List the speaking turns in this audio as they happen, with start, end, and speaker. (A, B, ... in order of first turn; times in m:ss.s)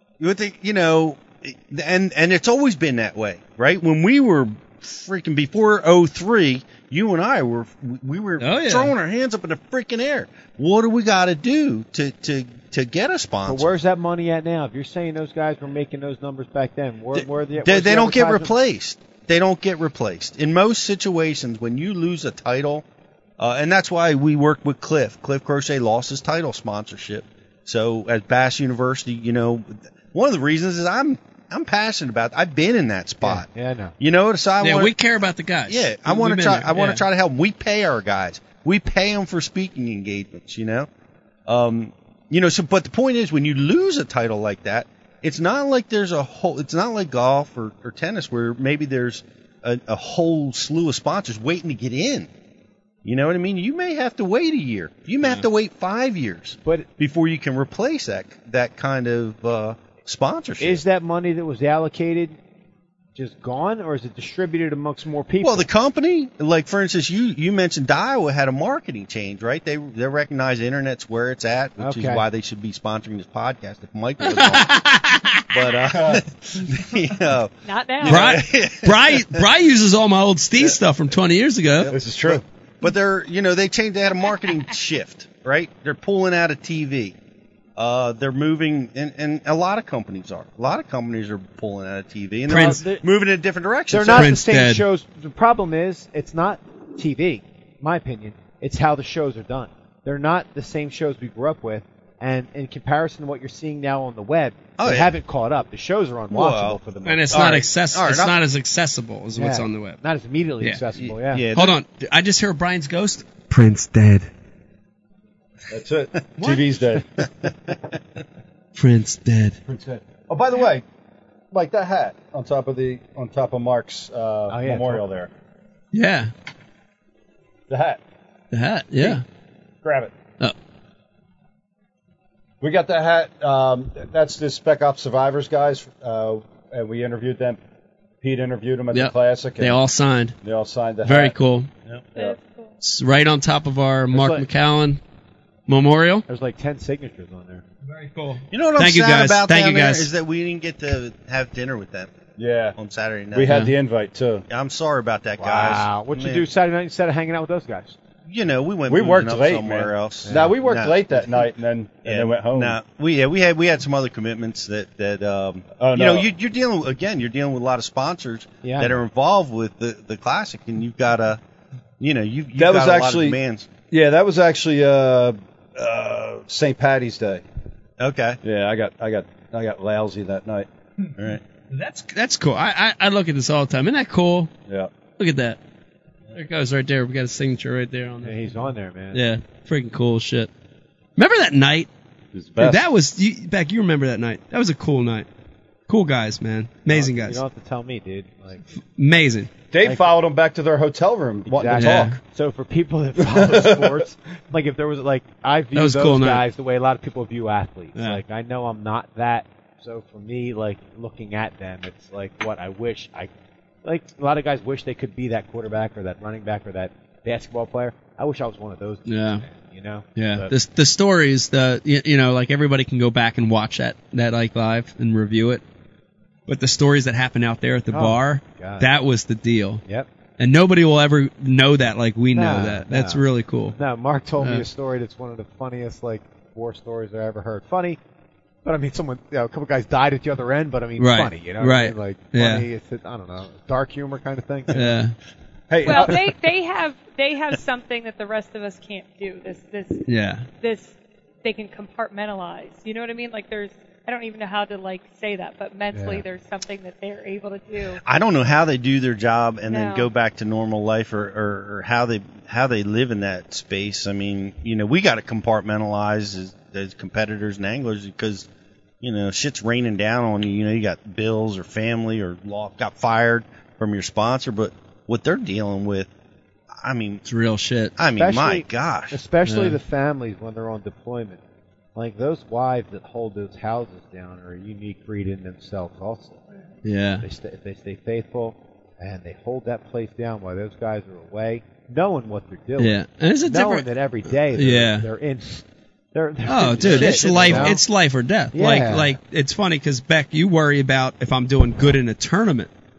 0:00.2-0:13.8 A
0:08.4-0:08.9 B
0:13.4-0:18.5 C
0:17.1-0:22.8 A
0:23.4-0:33.5 A
0:33.2-0:33.9 C
0:34.0-0:34.9 A
0:34.6-0:37.0 B
0:35.7-0:40.9 A
0:41.5-0:52.3 A
0:53.0-1:00.8 A
1:00.6-1:02.4 C
1:03.1-1:05.7 C
1:05.4-1:14.7 A
1:11.8-1:12.2 C
1:14.2-1:15.4 B
1:15.5-1:19.4 A
1:17.6-1:18.3 D
1:18.0-1:21.9 B
1:21.9-1:22.4 E
1:21.9-1:27.1 A
1:27.8-1:34.3 A
1:32.5-1:32.8 B
1:32.5-1:33.0 C
1:33.9-1:47.4 C
1:34.1-1:34.8 B
1:44.8-1:45.1 A
1:46.3-1:46.8 A
1:47.0-1:50.0 B
1:47.3-1:48.4 A
1:49.3-1:51.4 C
1:51.0-1:51.8 A
1:51.5-1:54.3 B
1:55.7-1:57.2 E
1:56.4-1:56.6 B
1:58.8-1:59.6 B
1:59.6-2:00.8 E
2:01.5-2:05.3 E
2:04.5-2:05.0 C
2:05.9-2:06.3 B
2:07.7-2:08.0 E
2:08.5-2:09.2 B
2:09.8-2:10.1 E
2:12.6-2:17.6 E
2:18.2-2:19.8 E
2:18.9-2:20.3 B
2:20.4-2:21.3 E
2:21.0-2:21.7 B
2:22.1-2:22.7 D
2:22.8-2:25.0 B
2:24.1-2:24.4 C
2:25.7-2:26.2 B
2:26.3-2:27.6 C
2:27.9-2:30.1 B
2:28.5-2:32.1 A
2:32.4-2:32.8 E
2:32.8-2:33.5 A
2:33.3-2:34.4 E
2:34.5-2:36.4 A
2:35.4-2:38.0 C
2:38.3-2:41.2 A
2:38.9-2:42.8 E
2:40.2-2:40.6 C
2:42.0-2:51.4 A
2:45.8-2:46.3 E
2:48.6-2:49.0 C
2:52.0-2:53.7 A
2:52.6-2:53.4 E
2:53.9-2:57.4 E
2:58.0-2:58.4 A
2:58.4-3:00.7 E
3:01.7-3:04.5 B
3:05.2-3:05.6 B
3:06.3-3:08.5 B
3:08.2-3:09.2 C
3:09.1-3:10.5 B
3:11.2-3:11.9 B
3:12.3-3:12.9 E
3:12.6-3:15.3 B
3:15.9-3:17.4 B
3:16.9-3:18.6 C
3:18.9-3:19.5 B
3:19.7-3:22.2 E
3:19.8-3:20.1 C
3:21.5-3:33.3 C
3:21.7-3:22.2 B
3:23.2-3:23.9 E
3:25.7-3:26.4 B
3:33.8-3:40.5 C
3:39.0-3:39.4 B
3:40.2-3:45.6 B
3:46.5-3:49.8 B
3:47.9-3:48.9 C
3:50.4-3:53.8 B
3:52.3-3:53.2 C
3:53.7-3:58.0 C
3:54.4-3:54.6 B
3:58.6-4:05.0 C
4:01.0-4:02.6 B
4:04.7-4:05.1 B
4:05.7-4:06.2 E
4:05.8-4:18.0 D
4:05.9-4:06.1 C
4:10.0-4:10.5 B
4:15.9-4:16.2 C
4:18.0-4:28.5 A
4:19.7-4:20.1 D
4:29.0-4:36.1 A
4:36.8-4:37.2 A
4:37.2-4:37.9 B
4:38.0-4:39.2 A
4:38.2-4:41.4 C
4:39.4-4:39.8 B
4:41.9-4:46.6 C
4:46.8-4:47.2 B
4:47.2-4:57.8 C
4:52.8-4:53.9 B
4:54.5-4:55.1 B
4:56.4-5:02.7 B
4:56.8-4:57.8 A
4:58.5-4:59.2 C